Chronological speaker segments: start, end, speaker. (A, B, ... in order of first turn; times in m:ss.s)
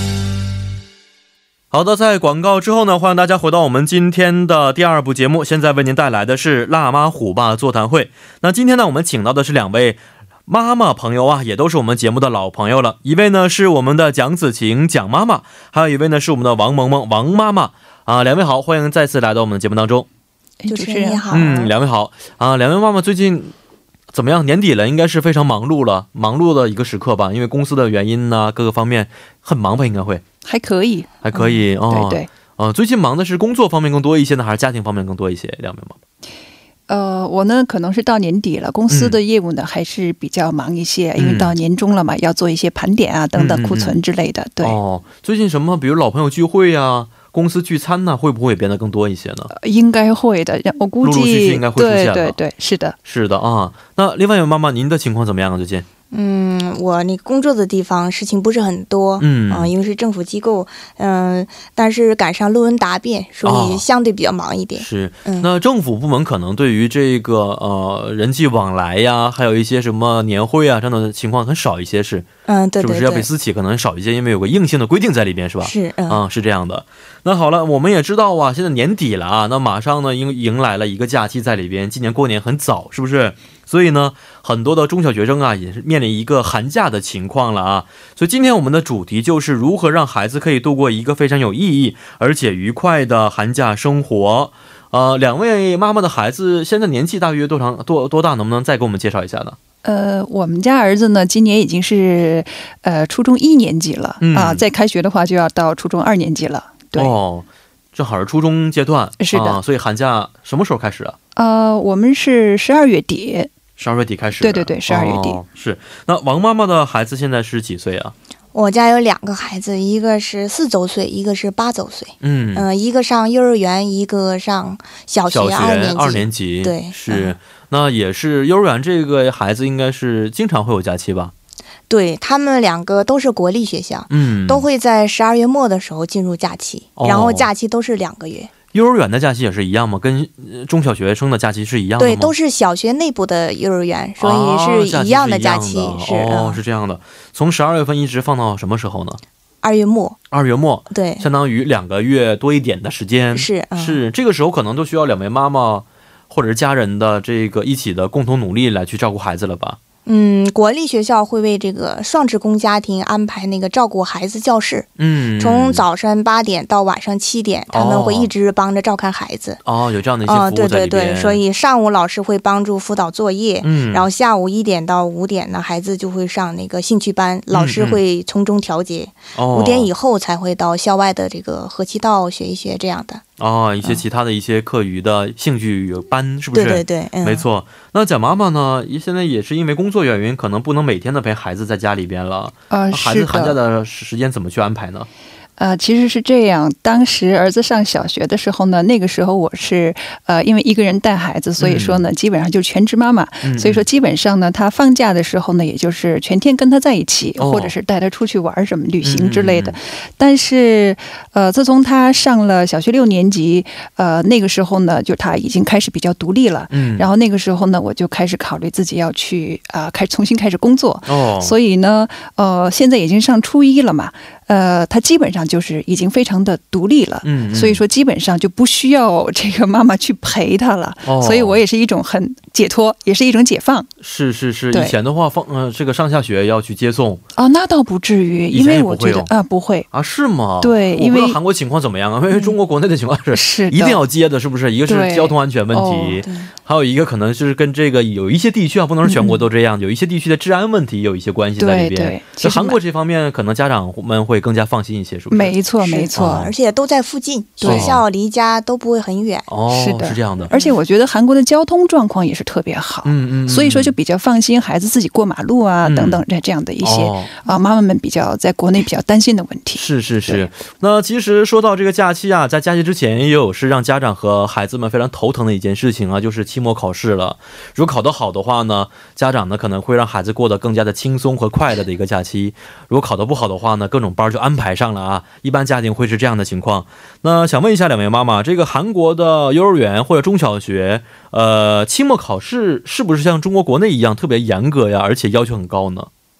0:01.7-0:20.1 A
0:20.6-0:21.6 B
0:20.7-0:21.7 C
0:21.3-0:23.5 A
0:24.1-0:30.2 A
0:30.4-0:32.3 B
0:31.2-0:36.0 A
0:36.9-0:44.8 B
0:38.9-0:39.2 A
0:41.2-0:41.5 A
0:43.3-0:44.0 A
0:44.6-0:49.5 A
0:49.5-0:53.0 B
0:51.0-0:52.4 A
0:53.0-0:55.8 A
0:56.1-1:05.5 C
0:59.2-0:59.7 A
1:03.4-1:03.8 A
1:04.8-1:12.3 A
1:12.5-1:13.3 C
1:12.8-1:39.6 A
1:15.6-1:16.2 C
1:39.8-1:47.1 B
1:44.2-1:44.6 A
1:47.0-1:51.2 A
1:49.2-1:49.6 B
1:51.4-1:53.5 B
1:53.8-1:58.1 A
1:54.4-1:55.4 B
1:58.5-2:07.3 C
2:02.2-2:02.7 A
2:05.3-2:11.3 A
2:11.9-2:18.5 C
2:14.1-2:14.7 A
2:17.0-2:17.5 A
2:18.7-2:22.3 A
2:22.0-2:26.6 C
2:24.2-2:29.2 A
2:29.6-2:30.2 C
2:30.3-2:39.8 A
2:30.9-2:31.2 C
2:33.3-2:34.0 C
2:40.0-2:49.6 C
2:45.0-2:45.8 A
2:47.7-2:48.3 A
2:49.6-2:51.4 A
2:50.2-3:03.2 C
2:53.6-2:54.1 A
2:57.5-2:58.0 A
2:59.3-2:59.9 A
3:03.4-3:15.1 A
3:06.5-3:07.4 C
3:12.7-3:13.6 B
3:15.6-3:53.9 B
3:21.6-3:22.0 A
3:23.4-3:23.8 A
3:27.4-3:27.7 A
3:29.0-3:29.8 A
3:36.7-3:37.1 A
3:41.1-3:41.6 A
3:47.2-3:47.8 A
3:51.0-3:51.6 A
3:54.0-3:57.2 A
3:57.4-3:59.9 B
3:58.5-3:59.3 A
3:59.9-4:15.6 A
4:00.6-4:01.4 B
4:03.3-4:04.0 B
4:04.9-4:06.2 B
4:06.2-4:06.5 C
4:09.0-4:09.4 B
4:11.6-4:12.8 B
4:15.3-4:16.5 B
4:15.8-4:19.5 C
4:16.2-4:16.4 A
4:17.6-4:17.9 B
4:17.6-4:18.0 A
4:19.5-4:20.5 A
4:19.7-4:30.4 B
4:20.5-4:20.8 C
4:23.0-4:23.9 A
4:25.8-4:26.2 A
4:26.8-4:27.3 A
4:29.7-4:56.1 A